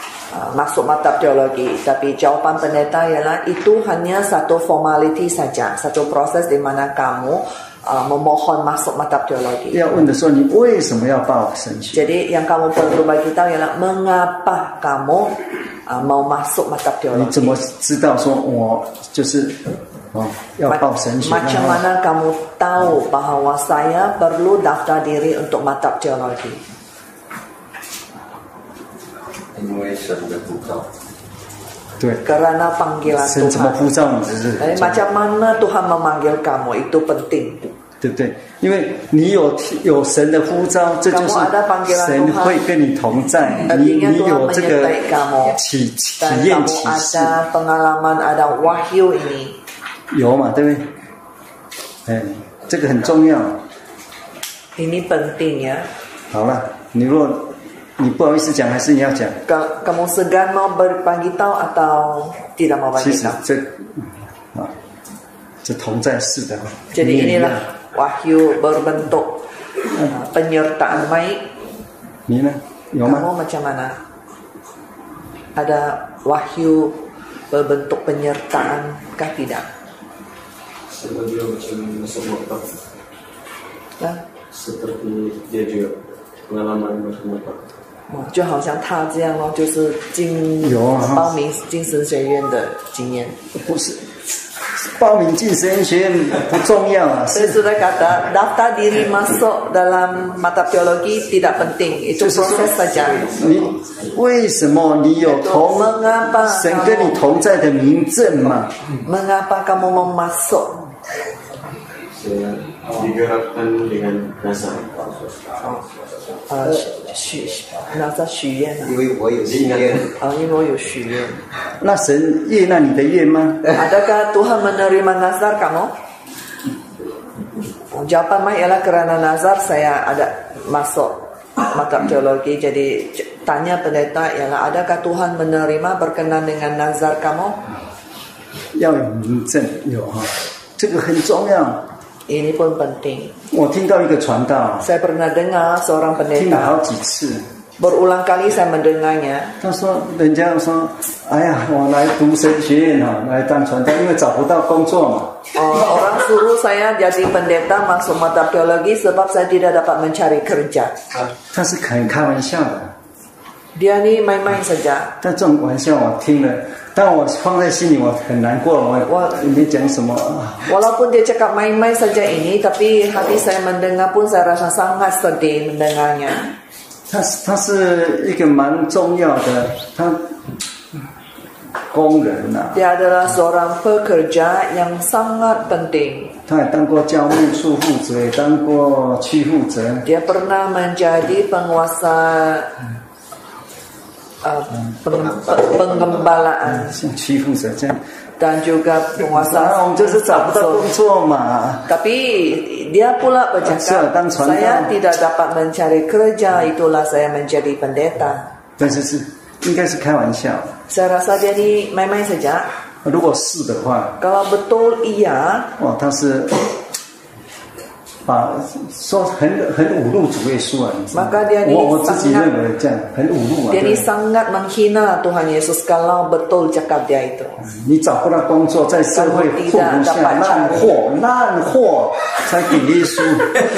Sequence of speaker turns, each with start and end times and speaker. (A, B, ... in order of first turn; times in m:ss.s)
0:00.3-0:09.8 A
0:09.7-0:12.1 B
0:11.9-0:17.6 A
0:17.1-0:19.6 B
0:20.1-0:21.8 B
0:20.7-0:26.6 A
0:29.5-0:30.9 C
0:32.2-0:33.8 A
0:33.1-0:35.0 B
0:34.6-0:37.7 A
0:38.0-0:47.4 B
0:41.1-0:42.6 A
0:43.7-0:45.6 A
0:46.2-0:49.6 A
0:50.1-0:50.9 B
0:52.1-0:53.6 B
0:54.8-0:55.9 A
0:56.3-0:59.4 B
0:59.5-1:03.4 A
1:03.0-1:04.7 B
1:05.6-1:07.6 B
1:06.9-1:09.4 A
1:10.1-1:11.5 A
1:12.3-1:13.3 B
1:13.0-1:14.0 A
1:15.6-1:17.0 A
1:17.5-1:19.7 A
1:20.9-1:22.8 C
1:24.5-1:27.6 C
1:28.1-1:33.4 A
1:30.6-1:31.3 B
1:33.6-1:37.6 B
1:37.3-1:43.4 A
1:42.2-1:48.8 B
1:43.4-1:43.9 C
1:45.2-1:47.2 A
1:49.0-1:50.9 A
1:52.1-1:55.6 C
1:56.5-1:59.0 A
1:59.0-2:00.1 C
2:00.2-2:01.4 A
2:01.8-2:03.7 B
2:03.8-2:05.9 A
2:07.9-2:17.6 A
2:18.7-2:21.8 B
2:22.3-2:23.4 A
2:23.5-2:24.9 B
2:24.8-2:26.8 A
2:26.4-2:27.4 B
2:27.8-2:29.6 A
2:29.6-2:35.4 B
2:35.6-2:41.0 A
2:41.5-2:42.9 B
2:43.8-2:45.2 A
2:45.2-2:50.7 B
2:49.1-2:49.4 A
2:50.6-2:56.5 A
2:57.1-3:00.3 B
3:01.9-3:02.8 B
3:02.7-3:06.4 A
3:06.5-3:10.1 B
3:10.0-3:12.8 A
3:14.4-3:17.0 A
3:15.2-3:16.1 C
3:16.6-3:18.0 B
3:18.4-3:20.9 A
3:19.2-3:21.9 B
3:21.9-3:28.5 A
3:23.6-3:24.9 B
3:28.8-3:30.7 B
3:30.9-3:32.7 A
3:33.0-3:34.2 B
3:34.2-3:35.7 A
3:35.8-3:36.8 B
3:38.3-3:44.1 B
3:41.1-3:42.5 A
3:43.7-3:47.6 A
3:47.6-3:53.6 B
3:49.1-3:50.9 A